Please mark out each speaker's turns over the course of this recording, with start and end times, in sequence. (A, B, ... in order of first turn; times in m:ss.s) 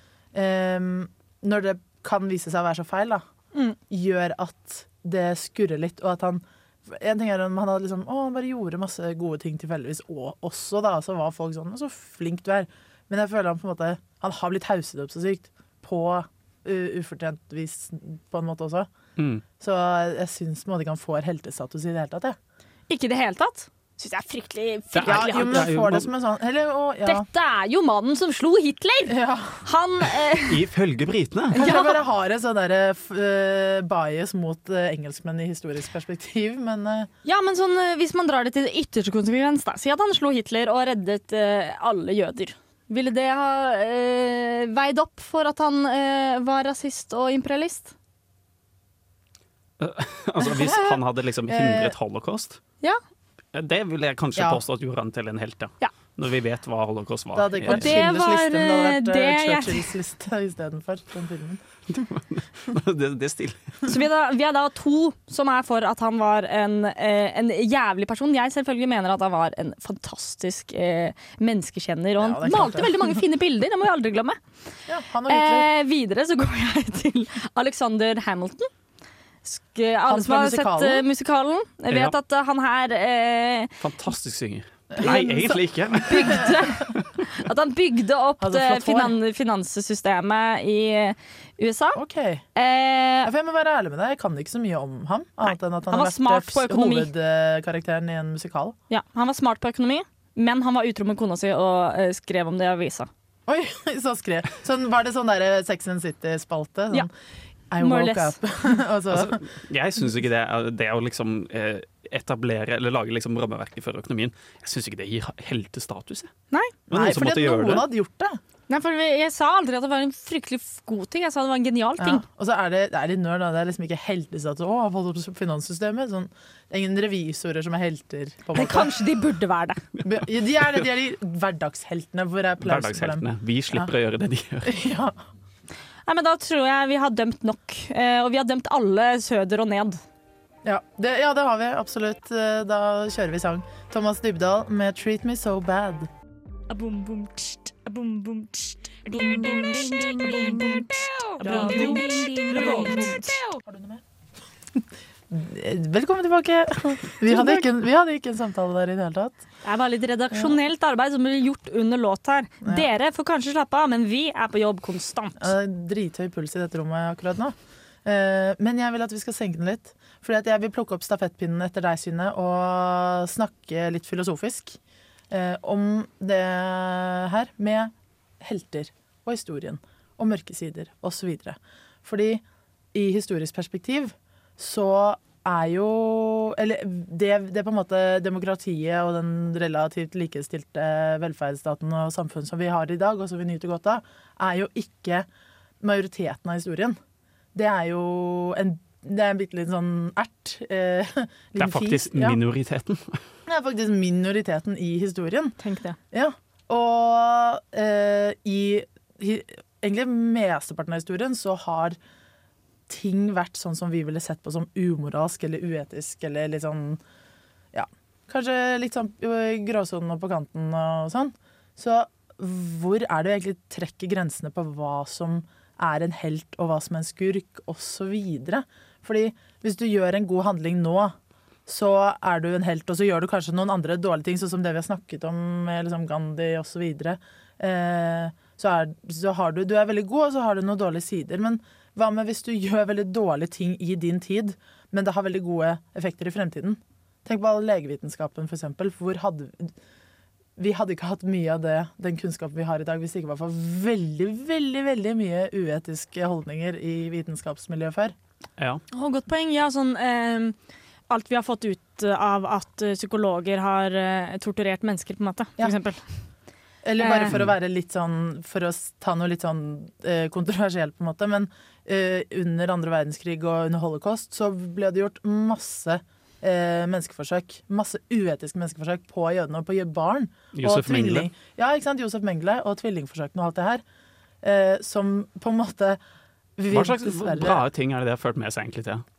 0:00.3-0:03.2 A
0:03.9-0:18.9 A
0:19.2-0:19.4 B
0:19.6-0:22.4 A
0:22.9-0:25.7 C
0:24.9-0:26.1 B
0:25.1-0:27.3 A
0:27.0-0:30.6 C
0:29.1-0:29.6 A
0:30.5-0:31.6 B
0:31.6-0:32.0 C
0:31.6-0:37.1 A
0:37.2-0:47.9 C
0:49.8-0:52.6 B
0:51.5-0:52.0 A
0:53.5-0:58.0 B
0:54.4-0:54.6 A
0:57.4-1:01.6 A
0:57.7-0:59.9 C
1:01.9-1:03.8 B
1:03.9-1:14.4 C
1:12.2-1:13.2 A
1:14.9-1:15.7 A
1:15.3-1:18.7 C
1:19.4-1:23.7 C
1:20.1-1:21.1 A
1:23.8-1:27.1 B
1:25.0-1:26.5 A
1:26.1-1:32.0 C
1:28.4-1:29.2 A
1:32.0-1:32.4 A
1:32.6-1:33.3 C
1:33.2-1:38.8 A
1:35.5-1:37.1 C
1:38.9-1:43.1 C
1:43.5-1:47.1 A
1:47.7-1:49.4 A
1:47.8-1:48.4 C
1:49.1-1:56.3 B
1:56.9-1:57.9 B
1:56.9-1:58.4 A
1:58.7-2:02.2 C
2:02.0-2:09.0 A
2:08.5-2:09.8 C
2:10.0-2:13.9 A
2:12.6-2:14.8 B
2:14.6-2:15.2 A
2:16.1-2:20.0 C
2:20.6-2:26.1 A
2:26.7-2:28.5 C
2:29.1-2:30.9 C
2:31.4-2:33.4 C
2:33.6-2:34.0 A
2:34.8-2:39.4 A
2:39.6-2:45.5 C
2:45.4-2:54.8 A
2:55.3-3:02.4 A
3:02.9-3:15.3 A
3:15.8-3:17.0 A
3:17.5-3:22.4 A
3:21.6-3:23.2 B
3:23.5-3:25.6 A
3:25.6-3:26.0 C
3:26.1-3:32.0 A
3:32.9-3:37.0 A
3:37.7-4:09.7 A
4:10.6-4:18.1 A
4:18.9-4:20.6 C
4:21.1-4:26.0 C
4:26.8-4:43.8 A
4:27.0-4:27.3 C
4:40.5-4:41.3 B
4:44.4-4:46.0 A
4:46.6-4:47.6 A
4:46.7-4:49.0 B